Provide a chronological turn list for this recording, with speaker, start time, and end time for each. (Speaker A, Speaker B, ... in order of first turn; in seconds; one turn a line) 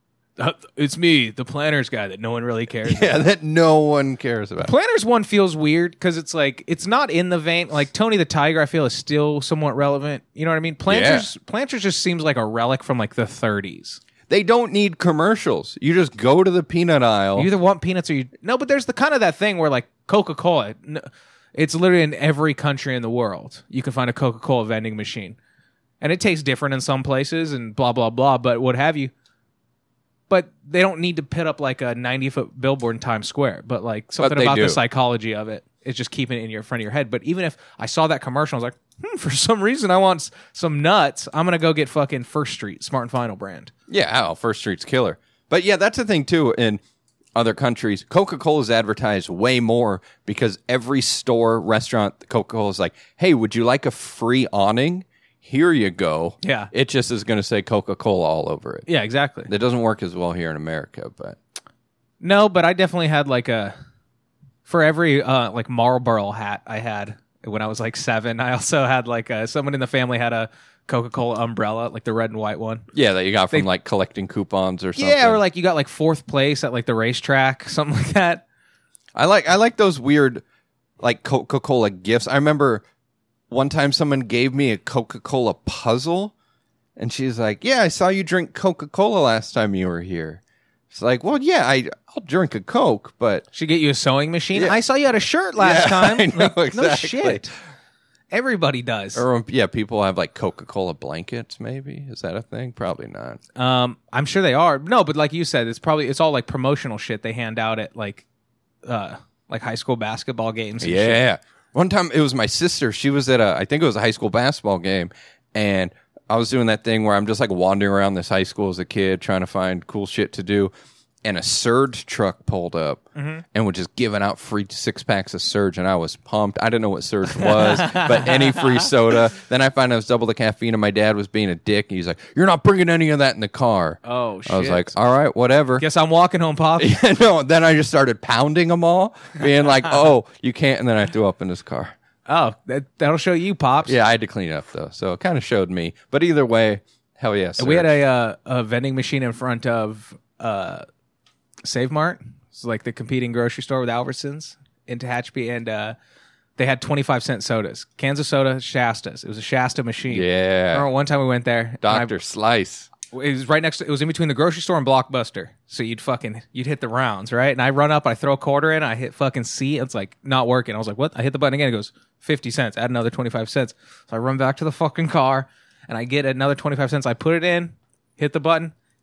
Speaker A: 0.4-3.3
Speaker B: 2.8-4.7
Speaker A: 4.6-14.0
Speaker B: 10.9-11.3
Speaker B: 14.3-17.5
Speaker A: 17.4-25.4
Speaker A: 26.0-29.1
Speaker A: 30.3-43.7
Speaker B: 34.2-34.8
Speaker B: 43.9-46.8
Speaker B: 47.3-58.9
Speaker A: 56.4-56.7
Speaker A: 58.9-59.5
Speaker B: 59.5-61.4
Speaker A: 62.2-63.7
Speaker A: 64.6-72.9
Speaker B: 72.9-75.4
Speaker A: 75.0-78.4
Speaker B: 79.2-80.4
Speaker B: 81.0-82.8
Speaker B: 83.5-86.3
Speaker B: 87.0-93.5
Speaker A: 93.5-97.5
Speaker B: 94.5-94.8
Speaker B: 95.6-97.5
Speaker A: 98.3-99.2
Speaker B: 99.1-103.4
Speaker A: 103.5-108.2
Speaker A: 108.8-111.2
Speaker B: 110.8-120.7
Speaker B: 121.2-135.8
Speaker A: 123.2-123.4
Speaker A: 127.3-128.9
Speaker A: 134.0-134.9
Speaker A: 135.8-136.9
Speaker B: 136.8-141.9
Speaker A: 142.3-143.9
Speaker B: 143.8-148.0
Speaker A: 147.6-150.8
Speaker A: 151.6-155.9
Speaker A: 156.6-162.2
Speaker B: 160.1-160.8
Speaker B: 161.8-162.9
Speaker A: 163.0-178.7